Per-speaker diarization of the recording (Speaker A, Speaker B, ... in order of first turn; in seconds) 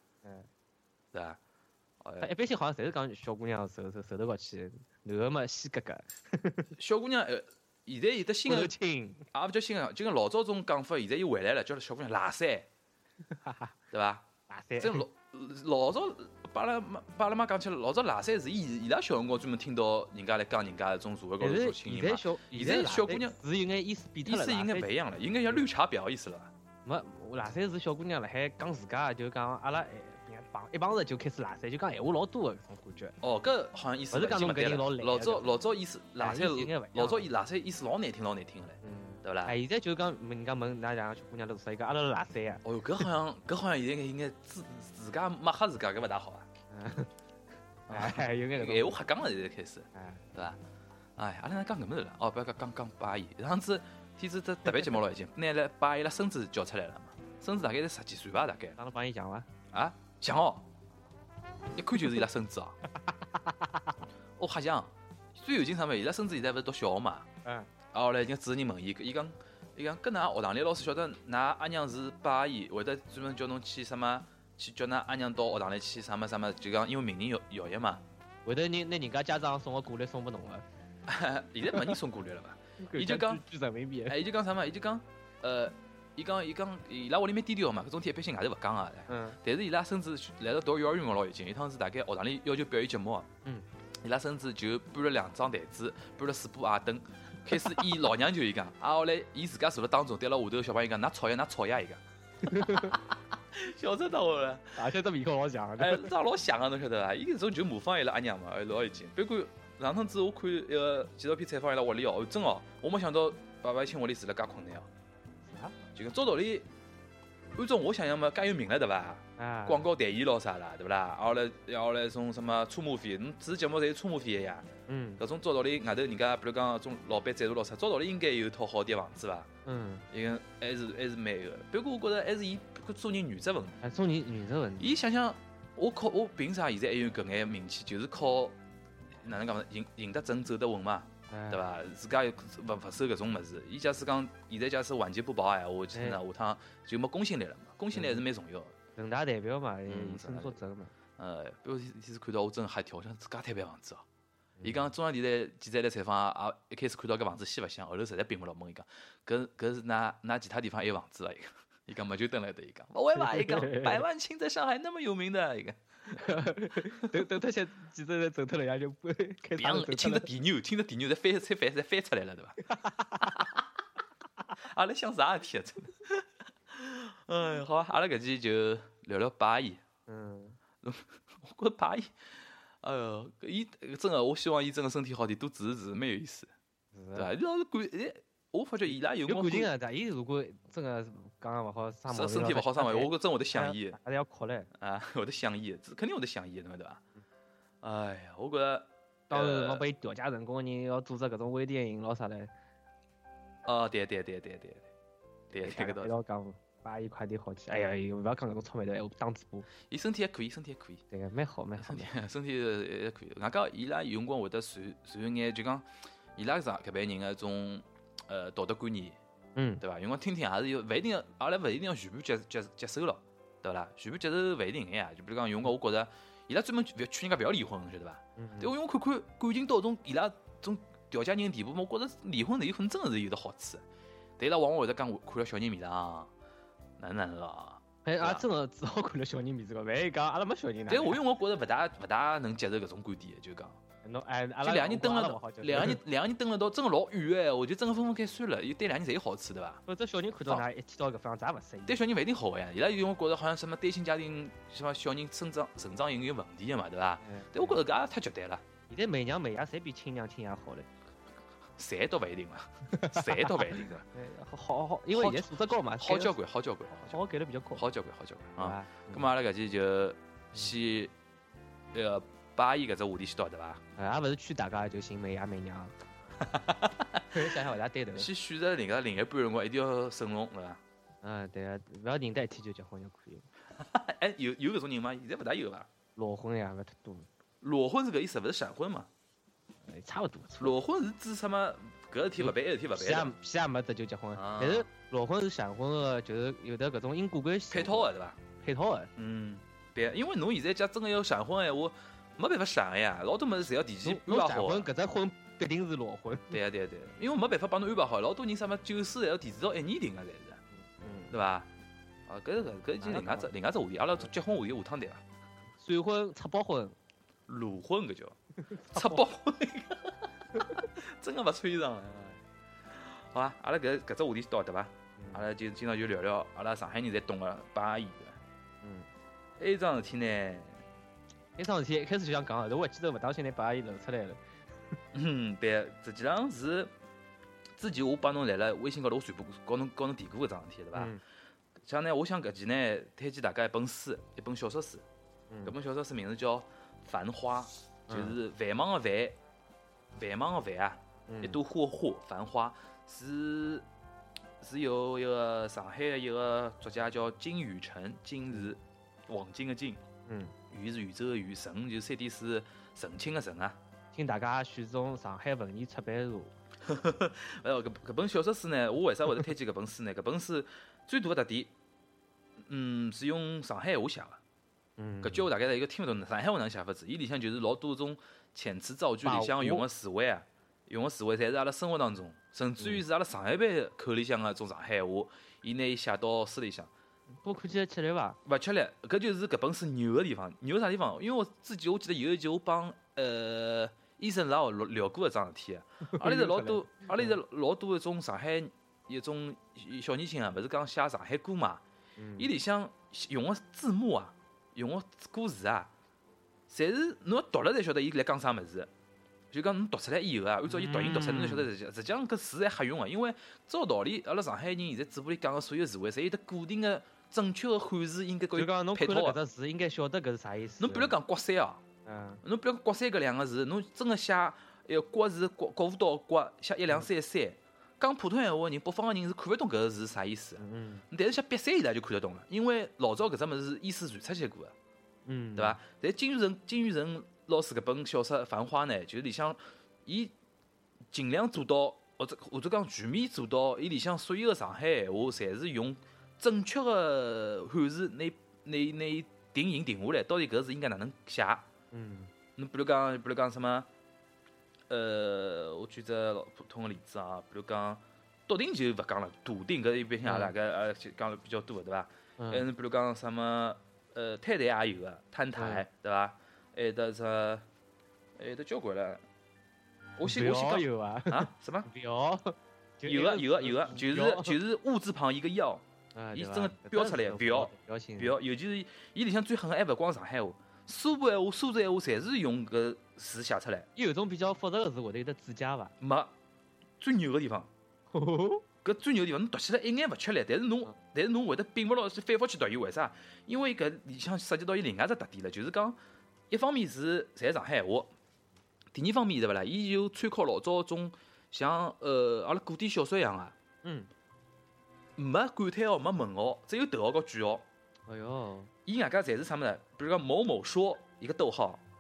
Speaker A: 1.1-1.4, 2.0-2.3, 6.8-8.7, 9.3-12.7, 13.9-14.3, 14.8-23.4, 24.2-26.5, 33.2-39.5, 42.6-46.5, 47.9-50.6, 51.2-58.8, 59.7-60.7, 61.7-62.8, 64.4-67.3, 67.9-78.0, 81.1-83.4, 84.1-93.3, 94.0-104.8, 105.8-114.9, 116.0-116.7, 117.6-124.7, 125.2-129.5, 130.1-133.8, 134.8-138.6, 139.2-148.8, 149.9-150.6, 151.2-154.1, 154.6-167.2, 169.6-172.6, 174.6-179.8, 180.8-182.1, 182.8-186.5, 187.2-189.7, 192.1-194.0, 194.8-197.0, 197.8-199.8, 203.7-204.9, 205.5-206.1, 209.9-211.0, 211.8-219.2, 219.8-233.8, 234.4-236.3, 237.0-238.4, 240.9-243.8, 244.6-249.8, 251.9-258.6, 261.8-264.1, 265.1-267.2, 267.8-271.1, 271.9-273.8, 276.4-277.3, 278.1-280.8, 283.8-285.9, 287.6-289.1, 290.6-293.3, 294.3-294.9, 297.7-298.4, 299.2-304.9, 306.5-310.6, 311.3-311.7, 312.3-315.2, 317.5-318.4, 318.9-328.4, 329.6-330.8, 335.1-336.9, 337.8-341.1, 341.8-345.0, 345.7-349.4, 350.2-353.9, 354.6-360.0, 360.7-363.8, 366.8-371.7, 372.6-374.4, 375.2-386.9, 388.4-401.8, 402.4-405.9, 406.7-408.9, 409.5-419.4, 420.8-421.8, 422.4-434.7, 435.6-440.3, 441.1-451.7, 452.6-453.9, 454.9-467.7, 468.4-469.2, 470.2-471.9, 473.1-483.9, 486.0-486.3, 487.0-487.7, 488.8-496.0, 496.5-498.1, 498.9-503.6, 505.2-507.6, 508.9-511.8
Speaker B: 2.2-6.7, 8.5-9.3, 13.3-13.7, 14.5-15.1, 21.4-24.9, 26.9-33.2, 34.1-35.5, 36.2-37.3, 38.8-42.6, 46.7-47.1, 47.9-49.0, 49.9-50.2, 58.8-59.5, 63.3-64.0, 67.5-67.7, 78.5-80.7, 81.7-82.0, 82.8-84.2, 89.1-89.4, 97.5-97.8, 102.4-103.0, 104.8-106.1, 115.5-115.8, 119.4-119.9, 124.9-125.2, 129.7-130.0, 133.8-134.9, 141.3-141.7, 145.9-146.2, 147.9-148.2, 149.0-150.9, 154.6-154.9, 163.2-164.0, 166.1-170.3, 172.7-173.5, 180.1-180.6, 186.9-187.3, 189.2-194.7, 199.3-202.5, 205.5-209.7, 211.1-212.1, 219.6-219.8, 228.4-228.7, 238.1-241.2, 244.0-246.0, 249.9-252.0, 257.2-257.8, 258.9-260.9, 262.9-266.4, 267.1-267.9, 268.6-269.3, 274.0-275.9, 277.3-278.3, 281.2-283.5, 286.2-287.3, 289.9-290.8, 292.4-298.1, 298.6-299.1, 304.0-306.6, 310.8-311.3, 313.0-313.5, 315.8-316.9, 318.6-319.2, 325.2-325.4, 328.8-329.1, 331.6-334.4, 340.9-341.2, 345.5-345.8, 348.1-348.4, 351.3-351.6, 360.3-360.5, 364.1-366.5, 375.0-375.5, 379.2-379.9, 387.4-388.4, 396.1-397.4, 402.2-402.5, 410.7-411.7, 418.6-421.1, 422.1-422.4, 430.6-431.1, 435.3-435.8, 451.9-452.3, 460.2-460.5, 462.4-462.7, 465.5-465.9, 470.2-474.6, 476.1-478.4, 484.0-485.9, 488.1-488.6, 503.8-504.1, 508.1-508.7